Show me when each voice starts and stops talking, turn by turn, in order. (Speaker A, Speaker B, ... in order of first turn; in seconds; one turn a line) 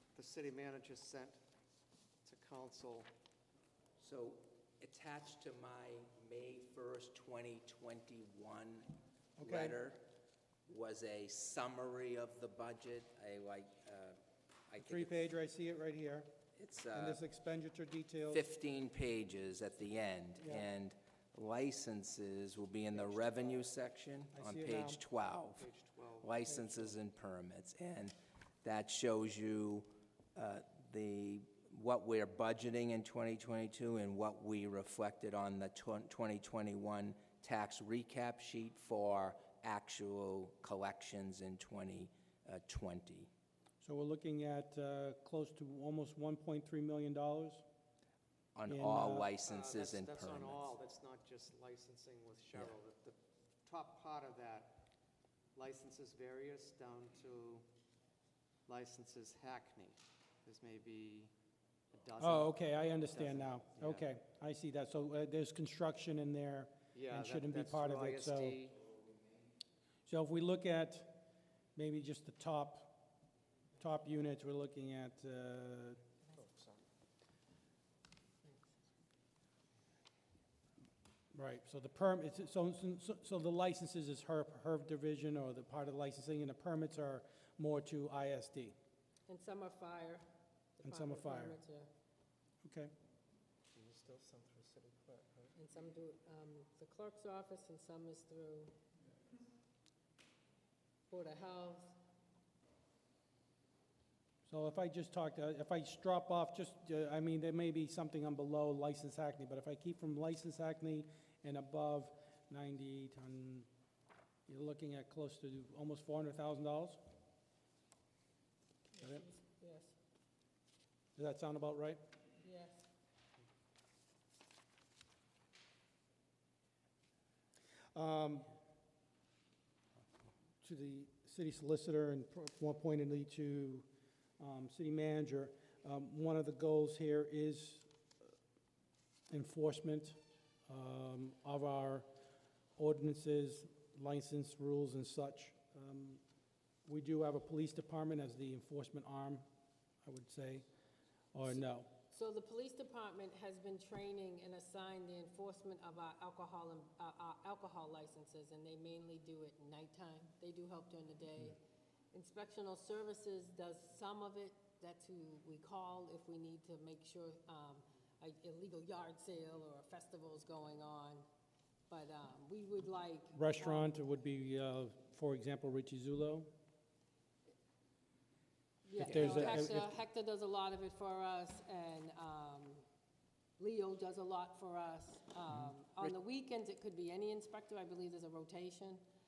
Speaker A: 0.1-1.4
Speaker A: 2.2-3.1
Speaker B: 4.0-10.1
Speaker C: 9.4-9.8
Speaker B: 10.7-15.2
Speaker C: 14.8-16.3
Speaker B: 16.6-17.2
Speaker C: 16.9-18.4
Speaker B: 18.3-43.3
Speaker C: 20.4-20.6
Speaker A: 23.0-23.6
Speaker C: 24.4-25.0
Speaker A: 25.6-27.0
Speaker C: 43.8-47.6
Speaker B: 48.5-50.7
Speaker C: 48.7-49.3
Speaker A: 49.4-54.9
Speaker A: 55.5-57.7
Speaker A: 58.7-61.3
Speaker A: 61.9-64.1
Speaker C: 62.2-68.6
Speaker A: 66.9-68.8
Speaker C: 70.1-71.2
Speaker C: 71.8-73.1
Speaker C: 73.8-76.0
Speaker A: 76.3-76.8
Speaker C: 81.3-88.8
Speaker D: 89.3-90.2
Speaker D: 90.8-91.9
Speaker C: 90.8-91.6
Speaker C: 92.6-92.9
Speaker A: 93.7-95.5
Speaker D: 95.6-98.7
Speaker D: 101.1-102.0
Speaker C: 104.5-113.7
Speaker C: 114.5-117.0
Speaker D: 118.9-120.0
Speaker C: 121.2-122.0
Speaker D: 122.4-122.9
Speaker C: 127.9-128.5
Speaker C: 130.6-133.9
Speaker C: 134.4-137.9
Speaker C: 139.3-142.1
Speaker C: 142.8-146.2
Speaker C: 146.9-149.5
Speaker C: 150.0-150.7
Speaker C: 151.3-151.9
Speaker D: 152.1-161.6
Speaker D: 162.1-171.2
Speaker D: 171.9-173.9
Speaker C: 173.3-176.5
Speaker D: 178.8-182.8
Speaker C: 179.0-179.9
Speaker B: 179.0-179.6
Speaker D: 183.6-189.0